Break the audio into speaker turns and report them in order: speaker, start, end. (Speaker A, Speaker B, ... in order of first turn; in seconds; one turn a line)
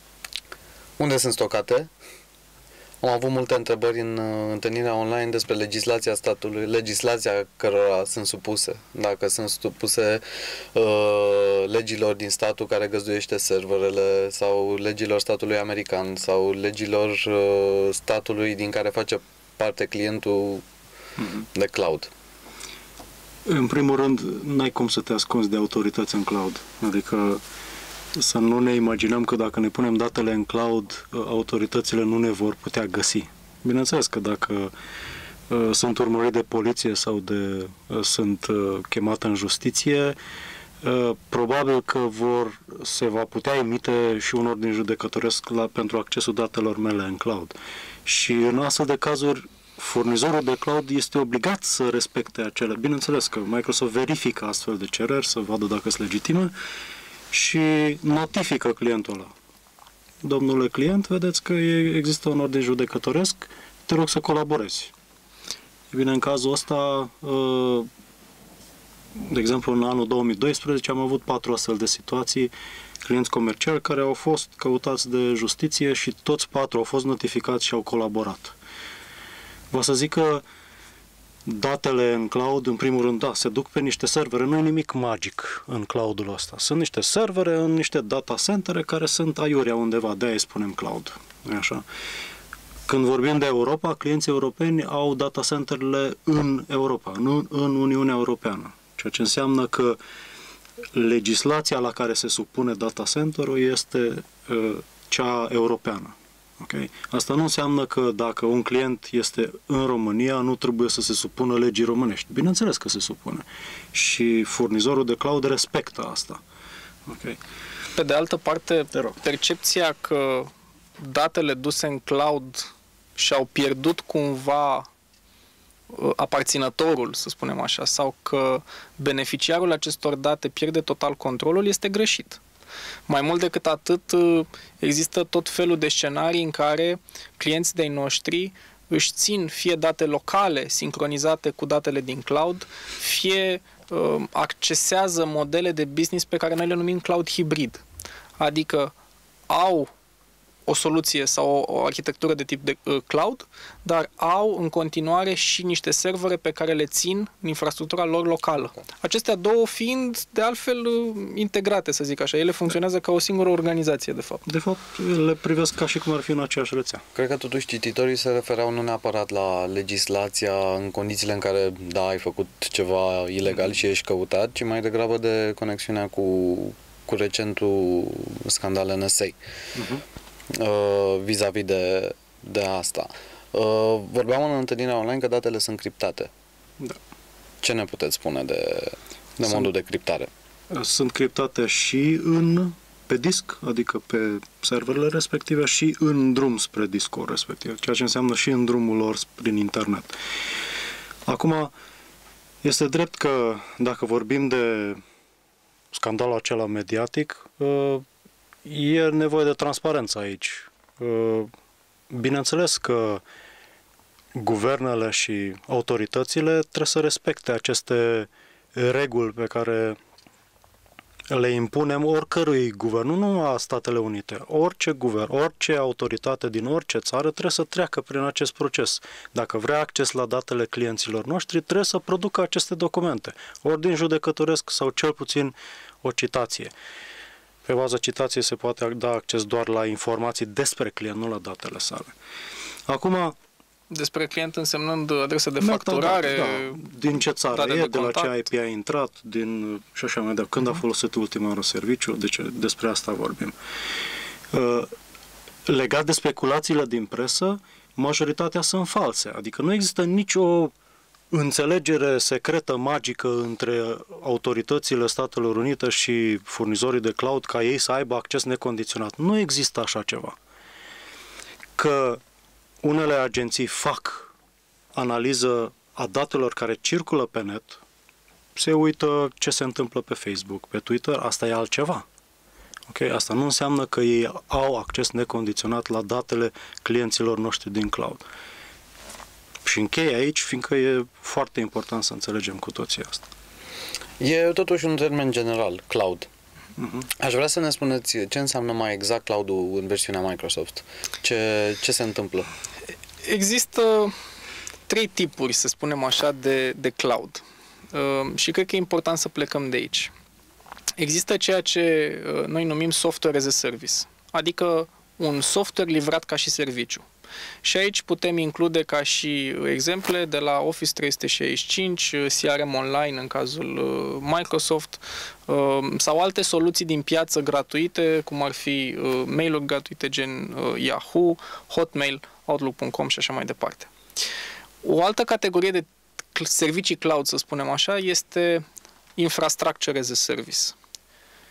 Speaker A: 1.0-1.9
Speaker A: 3.0-10.2
Speaker A: 10.7-20.6
Speaker A: 21.5-22.1
Speaker B: 23.5-27.4
Speaker B: 28.2-34.7
Speaker B: 35.5-40.2
Speaker B: 40.8-56.5
Speaker B: 57.3-59.3
Speaker B: 60.2-64.9
Speaker B: 65.9-67.9
Speaker B: 69.2-72.5
Speaker B: 73.0-78.5
Speaker B: 79.7-80.4
Speaker B: 81.5-91.8
Speaker B: 92.9-100.0
Speaker B: 100.9-116.4
Speaker B: 117.1-117.4
Speaker C: 118.0-124.9
Speaker C: 125.9-132.4
Speaker C: 133.1-147.8
Speaker C: 148.4-148.9
Speaker C: 149.5-149.9
Speaker C: 150.7-164.4
Speaker B: 164.4-167.0
Speaker A: 167.2-179.3
Speaker B: 179.8-180.0
Speaker A: 180.6-186.3
Speaker A: 187.6-190.3
Speaker B: 190.7-200.2
Speaker B: 201.3-201.7
Speaker B: 202.6-205.0
Speaker B: 205.9-208.0
Speaker B: 208.7-211.5
Speaker B: 212.1-213.2
Speaker B: 214.3-220.0
Speaker B: 221.3-236.7
Speaker B: 237.7-242.1
Speaker B: 242.9-243.3
Speaker C: 243.9-246.8
Speaker B: 245.6-253.5
Speaker C: 247.5-248.4
Speaker B: 254.5-254.9
Speaker B: 255.7-260.7
Speaker B: 261.3-270.4
Speaker B: 271.8-272.2
Speaker B: 272.8-274.3
Speaker B: 274.9-277.8
Speaker B: 278.6-282.1
Speaker B: 282.9-288.2
Speaker B: 289.6-293.3
Speaker A: 294.2-296.3
Speaker B: 296.8-297.1
Speaker A: 297.2-302.5
Speaker C: 303.2-304.1
Speaker C: 304.9-310.1
Speaker C: 311.0-317.1
Speaker C: 317.6-333.9
Speaker C: 334.8-338.6
Speaker C: 339.2-340.8